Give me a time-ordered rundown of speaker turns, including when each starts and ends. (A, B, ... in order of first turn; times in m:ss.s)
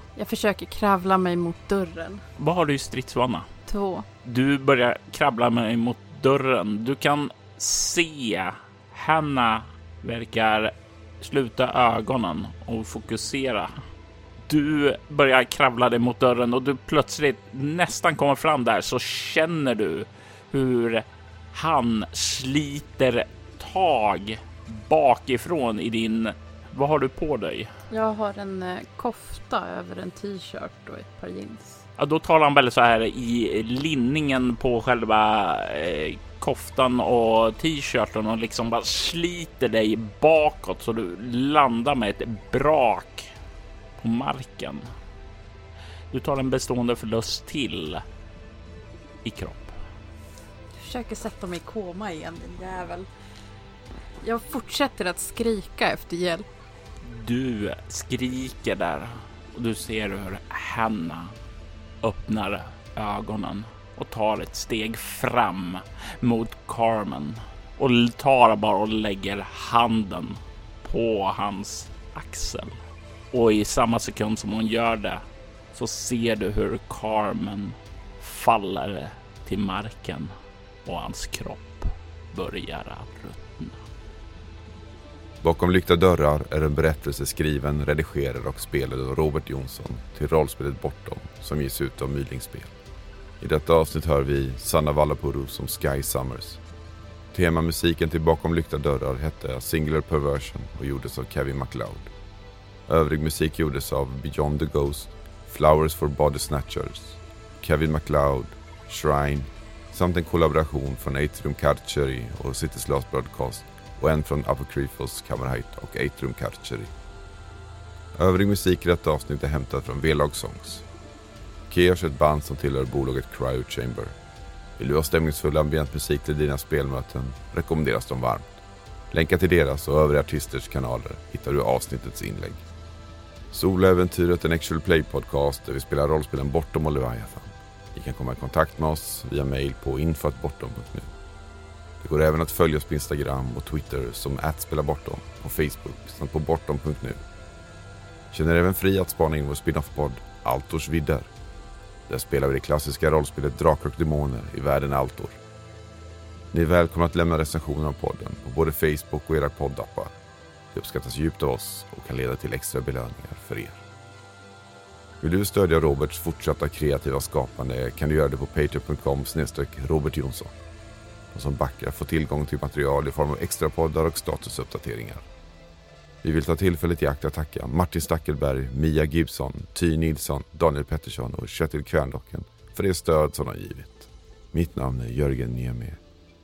0:00.2-0:02.2 A
0:02.4-0:03.5 B
0:03.7-0:04.1 A
0:04.2-0:13.8 B
0:14.5-0:27.7 B
0:27.9-0:31.8 A
0:32.0-0:43.3 B
0:44.0-0:44.9 B
0:46.1-0:48.0 B
0:49.2-0:49.8 B
0:50.8-0:53.1 A
0:54.2-0:56.5 A
0:57.0-1:01.4 B
1:02.0-1:20.3 B
1:20.8-1:23.8 B
1:25.4-1:32.7 C
1:33.4-1:36.6 C
1:37.3-1:42.1 C
1:42.9-1:56.9 C
1:58.2-2:00.8 C
2:01.7-2:04.1 C
2:04.8-2:08.6 C
2:09.1-2:12.6 C
2:13.5-2:21.1 C
2:22.0-2:27.2 C
2:28.3-2:31.3 C
2:32.1-2:35.4 C
2:36.5-2:40.2 C
2:40.7-2:43.8 C
2:45.2-2:50.5 C
2:51.3-2:55.2 C
2:56.2-3:06.0 C